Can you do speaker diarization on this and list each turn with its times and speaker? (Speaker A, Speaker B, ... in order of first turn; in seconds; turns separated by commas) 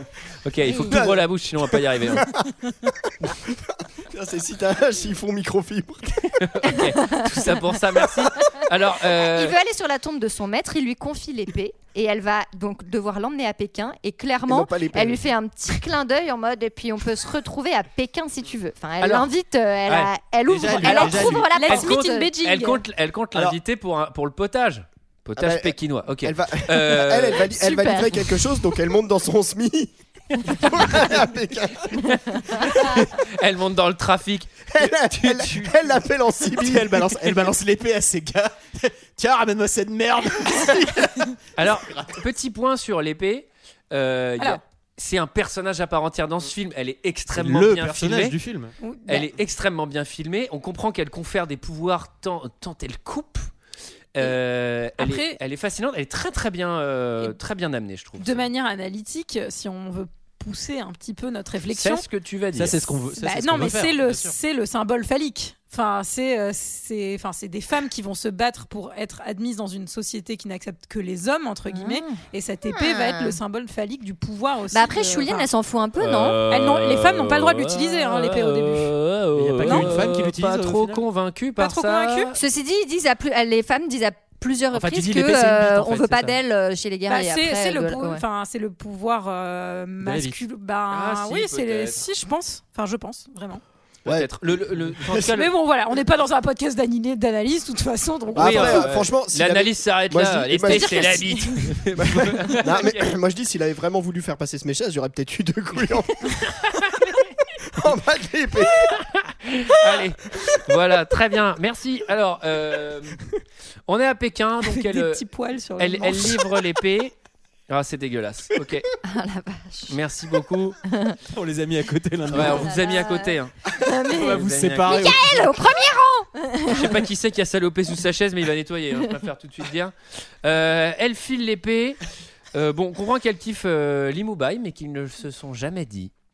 Speaker A: 0.4-2.3, Speaker B: 0.7-1.0, Speaker C: 0.8-6.6, Speaker A: 6.4-9.6, Speaker B: 6.8-7.5, Speaker B: 8.5-22.3, Speaker C: 14.5-15.3, Speaker A: 19.0-19.3, Speaker D: 20.5-21.5, Speaker A: 20.8-27.5, Speaker E: 21.5-22.8, Speaker C: 25.4-32.8, Speaker B: 27.5-28.3, Speaker A: 30.4-31.1, Speaker A: 31.9-35.8, Speaker C: 34.7-37.4, Speaker D: 36.6-42.2, Speaker A: 41.6-48.4, Speaker D: 47.3-48.7, Speaker E: 48.8-49.3, Speaker A: 49.1-53.5, Speaker A: 54.1-58.5, Speaker E: 55.0-55.4, Speaker E: 58.2-62.0, Speaker A: 61.7-62.9, Speaker D: 62.5-64.4, Speaker E: 63.2-75.5, Speaker B: 71.7-72.2, Speaker B: 72.7-73.4, Speaker B: 74.7-76.4, Speaker A: 76.0-82.4, Speaker E: 76.5-78.9, Speaker D: 79.3-81.0, Speaker E: 79.7-80.0, Speaker E: 81.6-82.3, Speaker B: 82.3-88.2, Speaker D: 84.7-86.4, Speaker E: 87.1-93.6, Speaker D: 90.0-90.4, Speaker A: 90.9-92.0, Speaker C: 94.0-95.3, Speaker A: 94.0-95.5, Speaker E: 95.3-98.9, Speaker C: 98.3-101.4, Speaker A: 98.3-103.2, Speaker C: 102.0-106.4, Speaker C: 107.6-109.0, Speaker A: 108.9-113.2, Speaker A: 113.9-115.2, Speaker E: 114.6-116.5, Speaker A: 115.8-117.1, Speaker A: 117.7-118.9, Speaker B: 119.0-120.0, Speaker A: 119.9-120.8, Speaker B: 120.9-121.2, Speaker D: 121.3-122.8, Speaker A: 122.3-123.6, Speaker B: 122.4-127.0, Speaker D: 124.0-125.6, Speaker A: 124.1-125.1, Speaker A: 126.7-132.0, Speaker A: 132.5-136.1